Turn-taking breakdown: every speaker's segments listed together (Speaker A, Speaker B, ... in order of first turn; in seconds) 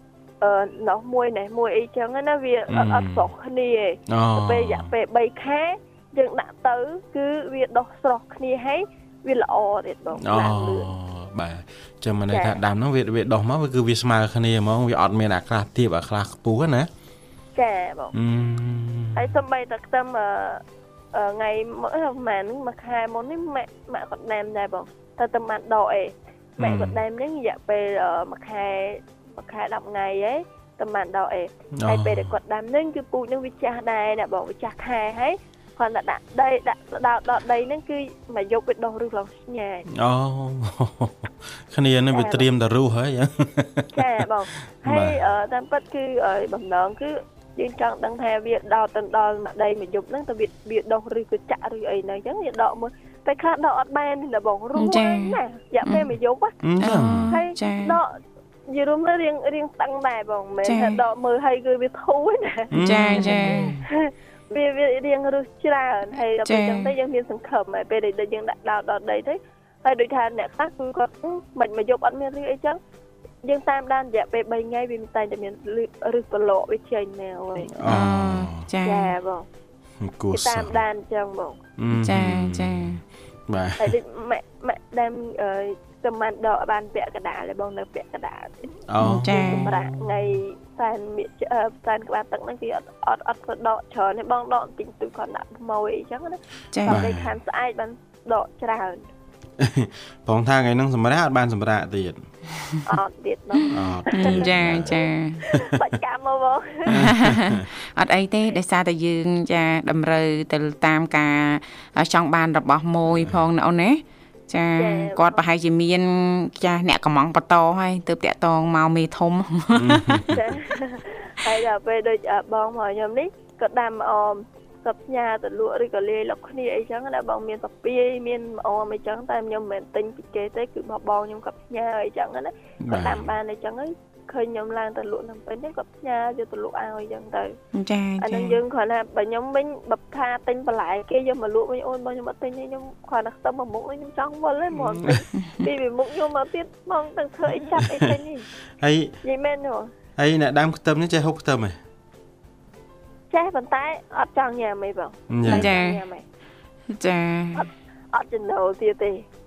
Speaker A: 0.4-10.9, 12.3-12.6, 17.5-18.1, 19.1-20.6, 21.1-39.9, 42.1-42.5, 43.9-56.5, 57.3-58.1, 58.7-72.8, 73.4-77.8, 78.8-79.5, 80.3-81.6, 83.8-99.0, 102.8-107.0, 114.8-115.4, 120.3-137.5, 138.2-148.4, 149.2-149.9, 153.3-156.2, 157.5-159.2
Speaker B: 2.7-3.3, 4.1-4.9, 10.2-16.9, 18.1-19.4, 26.6-27.0, 31.8-32.4, 39.9-44.0, 44.8-45.1, 56.6-57.3, 62.7-63.8, 77.7-78.7, 80.0-80.8, 81.8-84.0, 88.9-90.4, 96.8-97.3, 99.6-102.2, 103.7-105.0, 106.8-107.7, 113.1-113.4, 119.7-120.6, 132.8-133.3, 144.8-145.2, 147.7-148.2, 148.8-149.1, 150.2-151.8, 155.3-155.7
Speaker C: 54.8-56.1, 56.8-58.0, 60.6-61.0, 62.8-63.7, 66.4-66.9, 77.8-79.1, 81.9-83.0, 89.0-89.7, 96.7-97.0, 104.1-105.4, 106.9-120.2, 137.7-138.6, 155.5-156.0, 156.9-157.7